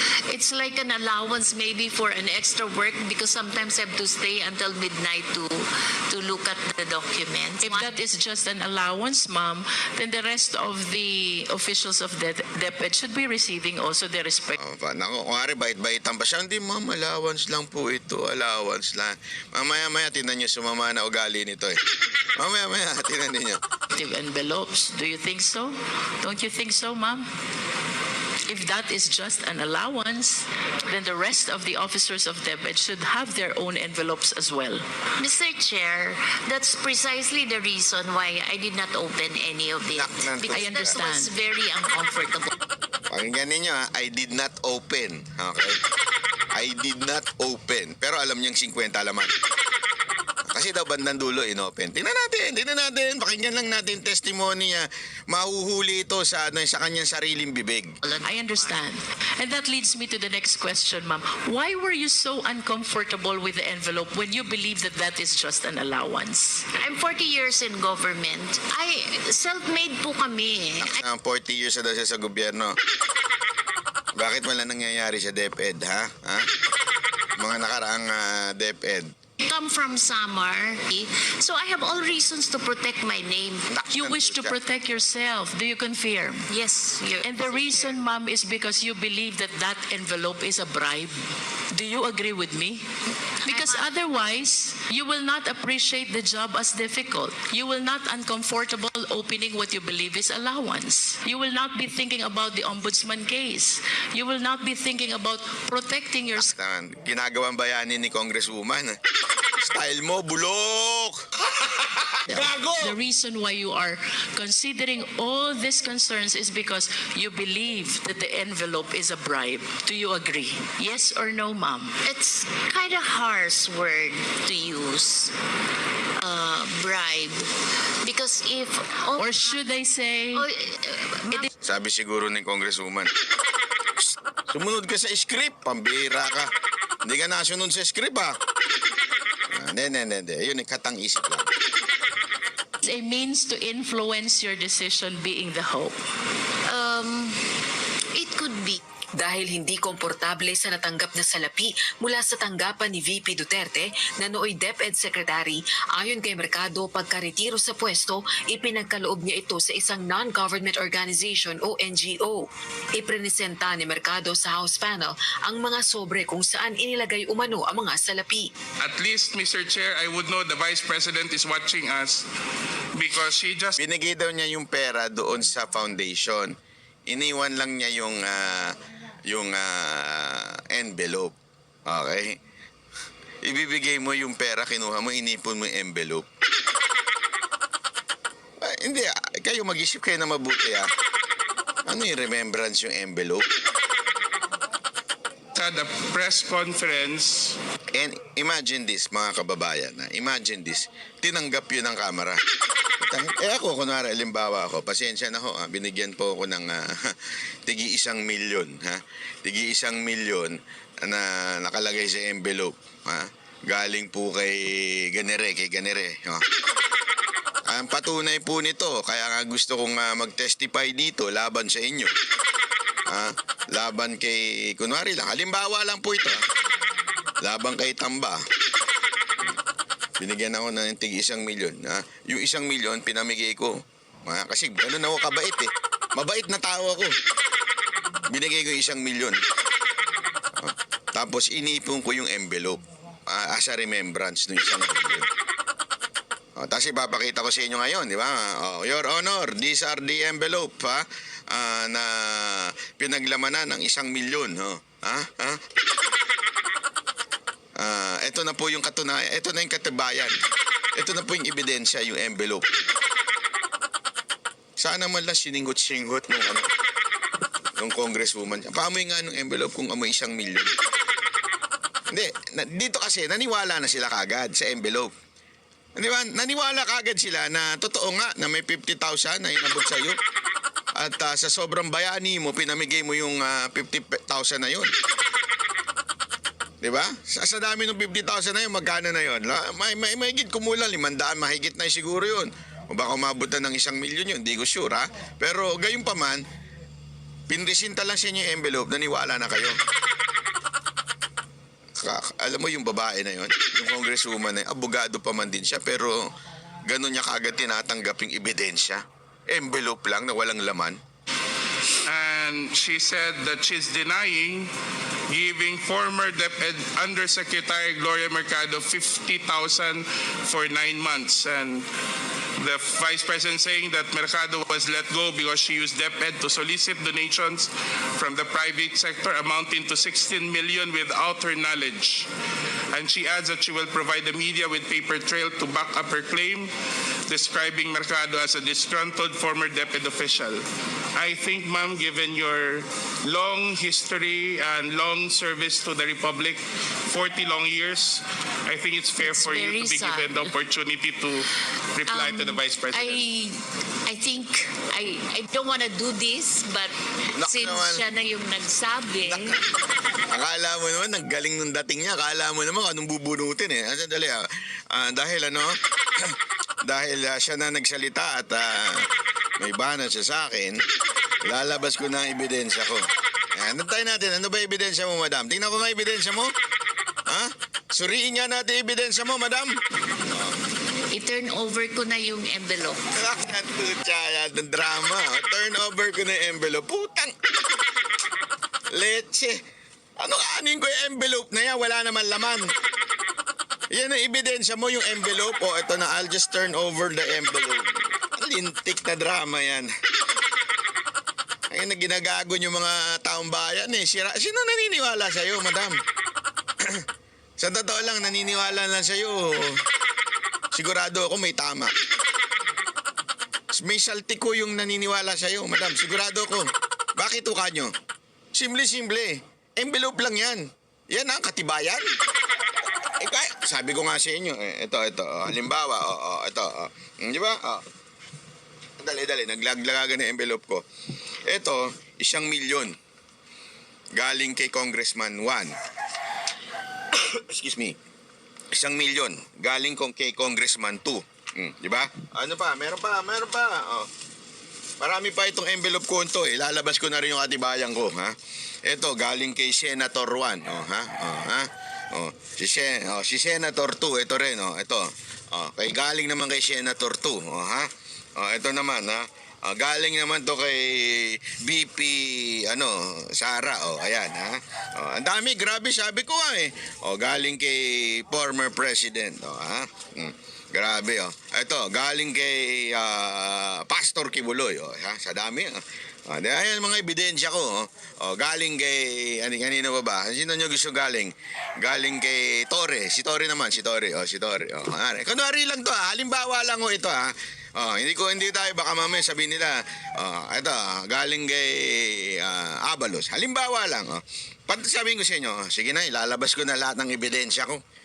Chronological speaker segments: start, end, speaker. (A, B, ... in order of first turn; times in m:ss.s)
0:00.3-0:08.0 A
0:07.6-0:14.6 B
0:14.6-0:21.8 C
0:22.4-0:23.6 C
0:23.9-0:27.3 B
0:28.5-0:34.8 B
0:35.2-0:42.5 A
0:39.9-0:41.0 C
0:40.5-0:41.3 B
0:43.1-0:45.8 C
0:46.5-0:49.3 C
0:50.5-0:57.9 C
0:58.0-0:58.8 A
0:58.2-1:06.6 B
1:06.7-1:11.0 A
1:10.8-1:12.8 C
1:14.2-1:16.5 C
1:17.4-1:19.1 C
1:19.4-1:23.7 A
1:23.7-1:24.6 C
1:23.9-1:26.5 B
1:26.5-1:28.0 A
1:27.2-1:31.2 B
1:31.7-1:32.8 B
1:33.4-1:34.0 A
1:33.5-1:46.5 B
1:46.3-1:49.0 C
1:49.6-1:51.2 C
1:52.3-2:02.0 B
2:02.0-2:05.3 A
2:06.2-2:07.5 A
2:08.0-2:09.7 A
2:09.2-2:10.4 B
2:10.3-2:11.5 A
2:11.6-2:13.1 C
2:14.5-2:16.5 C
2:17.0-2:18.4 C
2:19.5-2:21.5 C
2:22.8-2:26.0 B
2:26.6-2:27.4 A
2:28.1-2:28.8 A
2:29.2-2:48.5 D
2:48.8-2:52.2 E
2:52.9-2:53.8 E
2:53.8-2:56.5 C
2:57.1-2:58.7 C
2:59.3-3:01.3 C
3:01.9-3:02.4 C
3:03.4-3:06.2 C
3:08.6-3:10.9 C
3:11.8-3:13.4 C
3:15.5-3:17.6 E
3:17.9-3:22.4 C
3:23.0-3:27.1 C
3:27.7-3:36.4 C
3:37.7-3:42.1 C
3:43.1-3:46.4 C
3:47.4-3:48.4 C
3:50.2-3:57.1 C
3:58.3-3:59.4 C
4:00.6-4:05.3 C
4:06.6-4:15.6 C
4:17.8-4:20.4 C
4:21.0-4:22.7 C
4:24.8-4:26.7 C
4:27.8-4:30.7 C
4:32.1-4:35.1 C
4:36.0-4:40.2 C
4:41.0-4:44.9 C
4:46.8-4:56.4 C
4:57.5-4:59.8 C
5:02.0-5:06.3 C
5:06.8-5:11.0 C
5:12.1-5:14.7 E
5:15.3-5:21.8 E
5:22.6-5:32.3 E
5:32.9-5:36.7 E
5:37.3-5:40.6 E
5:41.2-5:53.2 E
5:49.2-5:50.5 A
5:52.1-5:59.5 A
5:57.4-5:58.0 C
5:59.2-5:59.5 C
6:00.3-6:06.3 C
6:06.8-6:09.0 C
6:09.6-6:10.8 C
6:11.4-6:13.0 C
6:13.6-6:16.5 C
6:17.3-6:19.8 C
6:21.1-6:23.0 A
6:23.1-6:27.3 C
6:28.9-6:29.6 C
6:30.2-6:32.7 C
6:33.9-6:39.9 C
6:41.7-6:46.0 C
6:47.6-6:49.8 C
6:50.7-6:51.9 C
6:53.7-6:57.9 C
6:58.5-7:02.0 C
7:03.2-7:07.8 C
7:09.0-7:10.8 C
7:11.5-7:12.9 C
7:14.2-7:15.7 C
7:17.1-7:18.0 C
7:18.7-7:24.1 C
7:25.0-7:55.8 C
7:56.3-8:17.8 C